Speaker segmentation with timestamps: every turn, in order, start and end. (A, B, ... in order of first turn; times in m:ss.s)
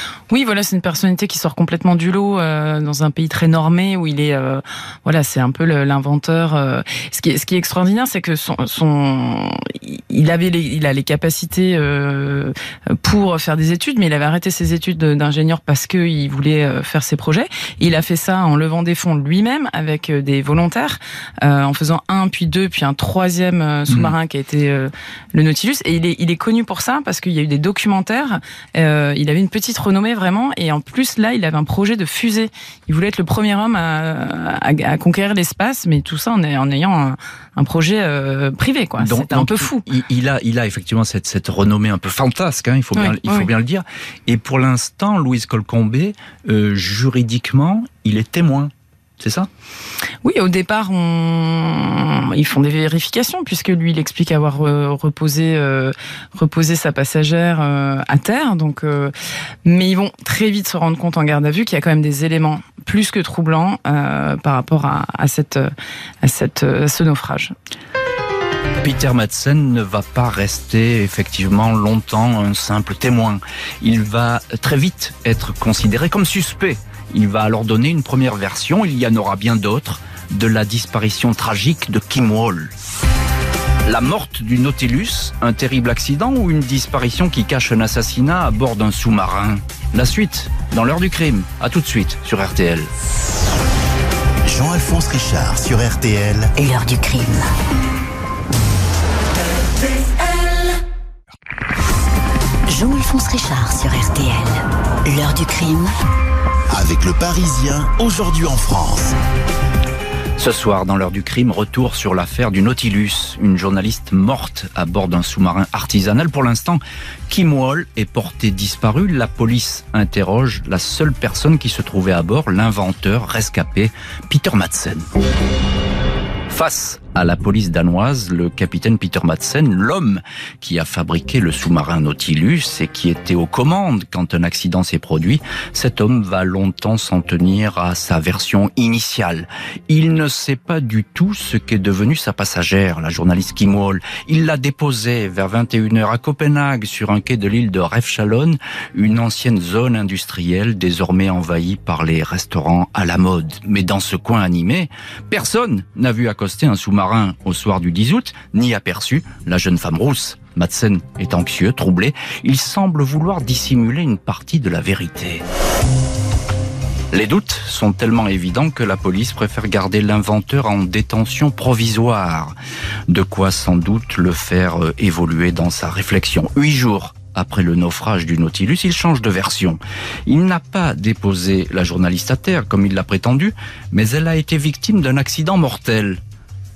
0:00.3-0:39.8 A
0:39.0-0:49.5 B
0:43.0-0:43.5 A
0:50.2-0:59.1 A
0:59.6-1:05.7 A
1:06.2-1:07.5 A
1:08.8-1:22.7 B
1:23.8-1:32.9 B
1:34.4-1:36.5 C
1:36.6-1:37.5 D
1:42.7-1:45.9 D
1:46.7-1:49.2 C
1:50.4-2:05.1 B
2:06.5-2:45.4 B
2:47.1-2:52.5 B
2:53.1-3:06.2 B